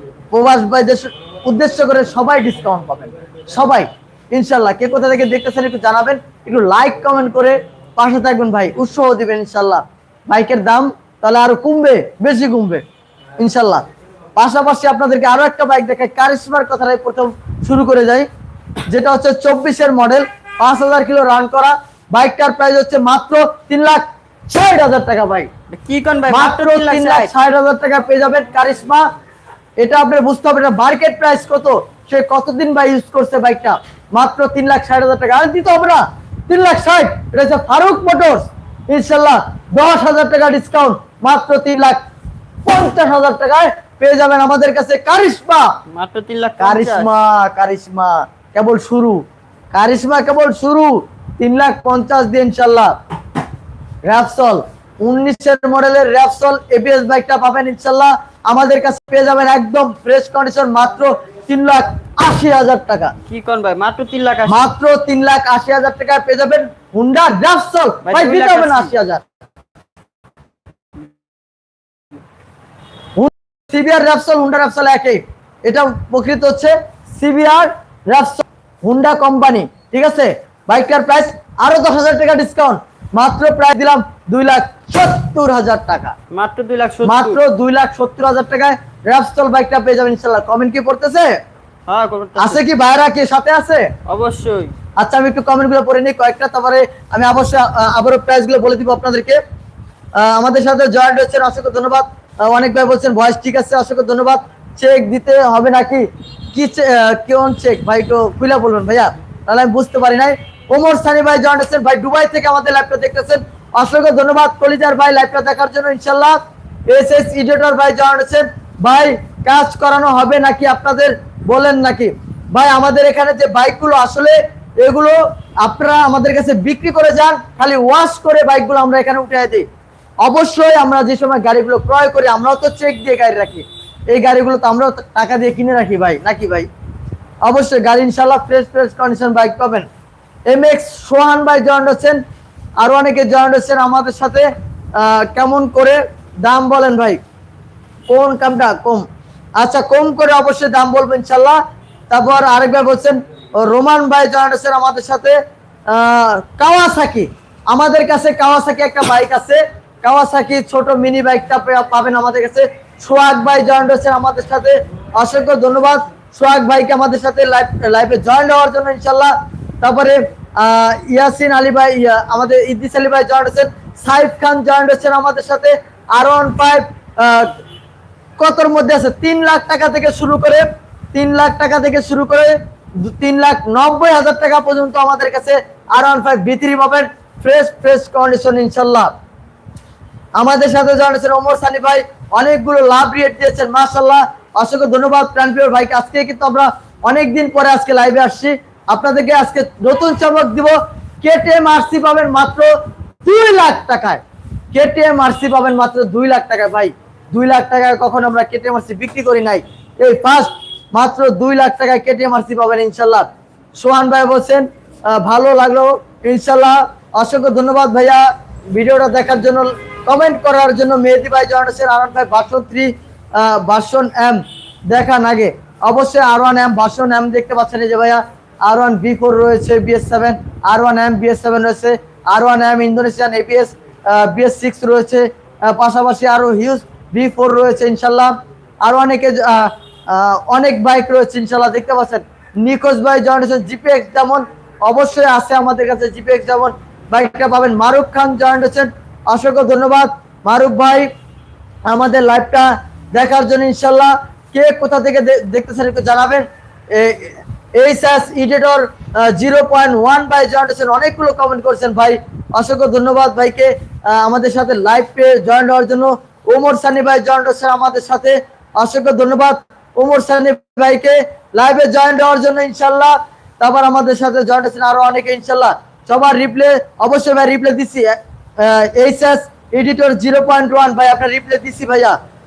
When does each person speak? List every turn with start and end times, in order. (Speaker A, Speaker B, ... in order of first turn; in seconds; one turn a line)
Speaker A: 0.3-12.8
Speaker A: 13.4-13.8
Speaker A: 14.3-18.3
Speaker A: 18.9-25.5
Speaker B: 25.7-27.3
Speaker A: 26.3-29.1
Speaker A: 29.8-42.0
Speaker A: 42.6-45.8
Speaker B: 45.9-47.1
Speaker A: 46.6-52.9
Speaker A: 54.0-63.1
Speaker B: 63.3-64.7
Speaker A: 64.5-69.2
Speaker B: 68.0-68.9
Speaker A: 73.2-86.2
Speaker B: 86.3-87.4
Speaker A: 87.0-91.4
Speaker B: 91.9-92.6
Speaker A: 92.3-93.9
Speaker B: 94.0-94.7
Speaker A: 95.0-99.4
Speaker A: 100.1-129.7
Speaker A: 130.2-136.7
Speaker A: 137.4-139.9
Speaker A: 140.5-142.2
Speaker A: 142.8-147.2
Speaker A: 148.1-151.6
Speaker A: 152.1-177.5
Speaker A: 178.4-189.1
Speaker A: 190.4-202.7
Speaker A: 203.2-251.1
Speaker A: 251.8-282.2